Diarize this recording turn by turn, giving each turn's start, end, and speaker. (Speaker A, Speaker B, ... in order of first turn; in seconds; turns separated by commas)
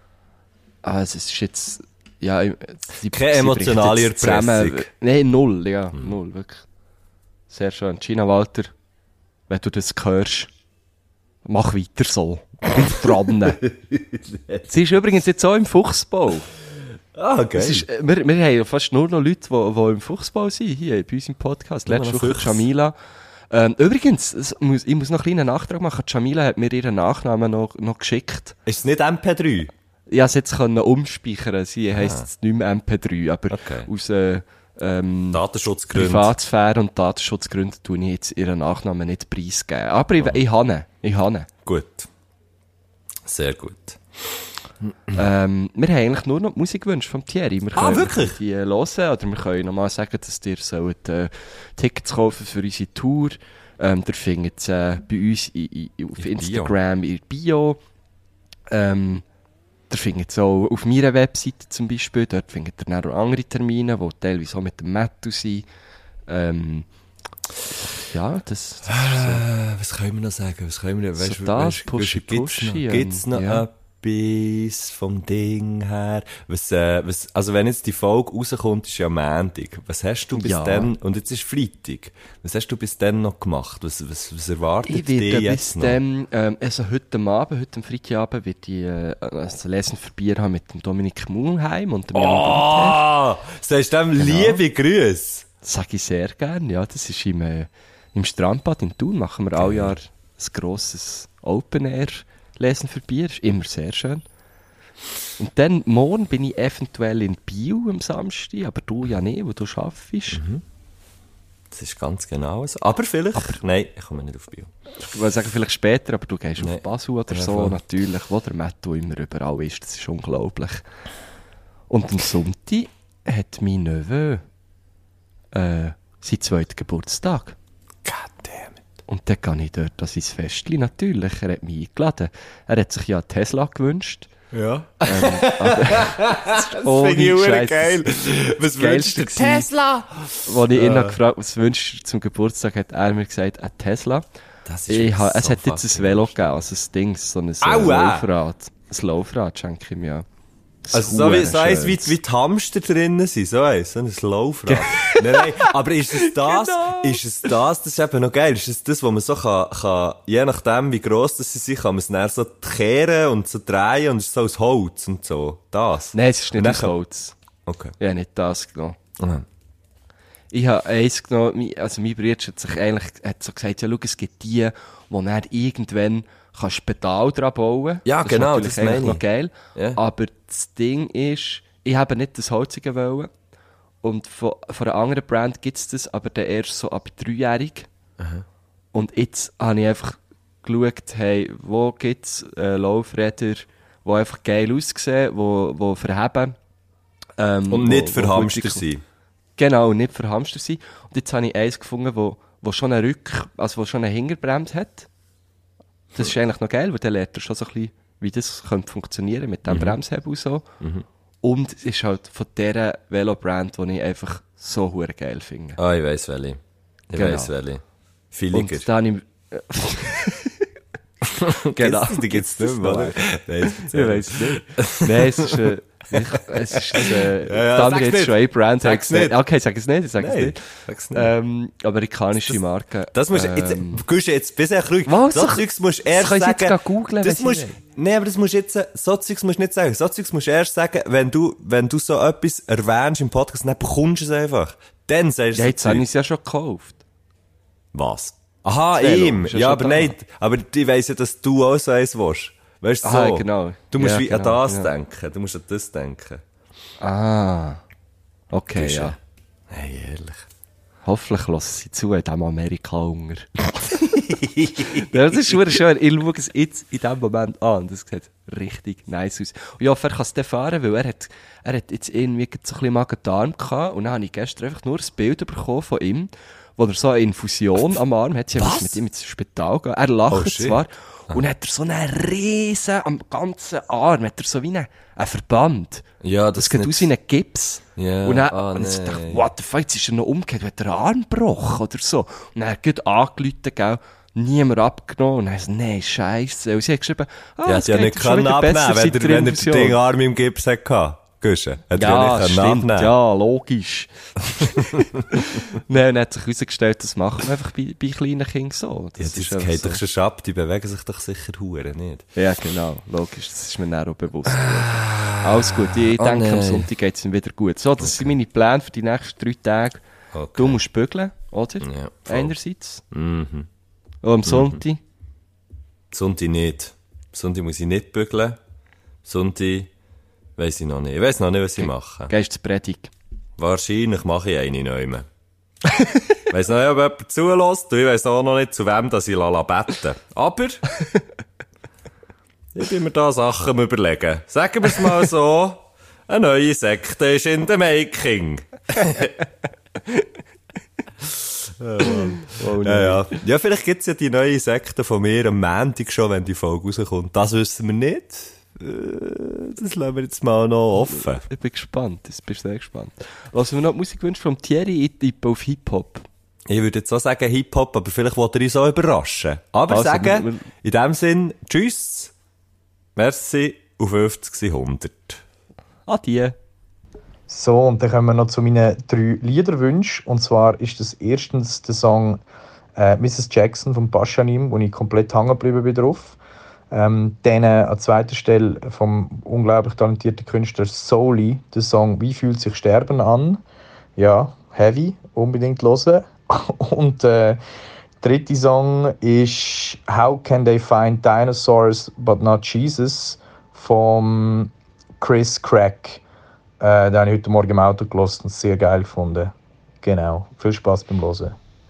Speaker A: 0.8-6.7, Speaker B: 3.1-4.9, Speaker A: 7.5-8.7, Speaker A: 9.5-10.5, Speaker A: 11.4-13.6, Speaker B: 13.6-14.7, Speaker A: 14.7-16.5, Speaker B: 17.1-17.9, Speaker A: 17.6-22.9, Speaker B: 21.9-22.6, Speaker A: 23.5-28.6, Speaker B: 28.7-29.7, Speaker A: 30.1-35.4, Speaker B: 31.9-32.2, Speaker B: 33.5-33.9, Speaker B: 35.3-36.3, Speaker A: 35.9-41.5, Speaker B: 41.6-42.1, Speaker B: 43.3-45.1, Speaker A: 45.1-57.8, Speaker B: 47.7-48.4, Speaker B: 56.2-56.7, Speaker A: 58.7-59.2, Speaker A: 59.9-65.6, Speaker A: 66.3-66.9, Speaker A: 68.0-69.5, Speaker B: 68.9-86.0, Speaker A: 71.2-73.6, Speaker A: 80.3-80.9, Speaker A: 84.8-93.0, Speaker B: 92.1-95.5, Speaker A: 94.2-94.6, Speaker A: 95.6-104.2, Speaker B: 99.6-100.0, Speaker A: 105.4-110.4, Speaker B: 110.3-110.6, Speaker B: 111.7-114.7, Speaker A: 115.0-120.8, Speaker B: 116.6-117.8, Speaker A: 121.9-124.4, Speaker A: 125.5-127.6, Speaker B: 128.1-128.8, Speaker A: 129.1-134.3, Speaker B: 134.5-141.2, Speaker A: 135.1-139.7, Speaker A: 140.4-144.2, Speaker B: 144.7-146.6, Speaker A: 144.9-150.2, Speaker B: 147.6-148.3, Speaker A: 150.8-152.1, Speaker B: 150.9-166.9, Speaker A: 154.7-157.2, Speaker A: 166.1-167.3, Speaker B: 167.7-167.9, Speaker A: 168.0-168.9, Speaker B: 169.2-169.4, Speaker A: 170.5-183.3, Speaker B: 178.1-179.2, Speaker A: 184.0-187.9, Speaker B: 188.2-188.4, Speaker A: 188.9-196.6, Speaker A: 197.4-198.9, Speaker B: 197.7-199.0, Speaker A: 199.6-205.1, Speaker A: 206.1-210.7, Speaker B: 209.7-210.0, Speaker A: 211.4-215.8, Speaker B: 215.8-218.9, Speaker A: 217.1-217.5, Speaker A: 218.5-220.7, Speaker B: 221.4-225.6, Speaker A: 221.7-234.0, Speaker B: 226.1-229.4, Speaker B: 230.2-231.3, Speaker B: 233.1-246.1, Speaker A: 235.1-237.8, Speaker A: 245.5-247.0, Speaker B: 247.9-256.4, Speaker A: 248.9-250.1, Speaker A: 253.0-254.9, Speaker A: 257.0-257.8, Speaker A: 258.5-259.2, Speaker B: 258.7-259.2, Speaker B: 259.7-260.5, Speaker A: 261.1-263.5, Speaker B: 264.1-265.7, Speaker A: 264.9-286.1, Speaker B: 278.6-279.0, Speaker B: 280.3-281.4, Speaker B: 286.2-287.1, Speaker A: 286.6-300.0, Speaker B: 287.9-289.4, Speaker B: 297.6-303.1, Speaker A: 301.9-310.0, Speaker B: 309.2-312.3, Speaker A: 312.4-320.0, Speaker B: 314.5-316.9, Speaker B: 318.0-318.3, Speaker B: 320.3-320.8, Speaker A: 320.6-323.0, Speaker B: 321.8-322.5, Speaker B: 323.1-323.7, Speaker A: 324.2-325.0, Speaker B: 324.4-324.8, Speaker B: 326.1-328.6, Speaker B: 329.2-329.9, Speaker B: 330.6-332.3, Speaker A: 331.8-333.1, Speaker B: 333.6-335.3, Speaker B: 336.5-340.8, Speaker B: 342.7-349.4, Speaker B: 351.2-361.4, Speaker A: 352.1-353.3, Speaker A: 361.1-366.2, Speaker B: 366.7-372.3, Speaker A: 369.9-370.7, Speaker B: 373.2-375.4, Speaker A: 376.1-376.6, Speaker C: 377.5-382.4, Speaker C: 382.9-386.4, Speaker C: 386.9-393.6, Speaker C: 394.2-397.6, Speaker C: 398.2-406.2, Speaker C: 406.8-411.6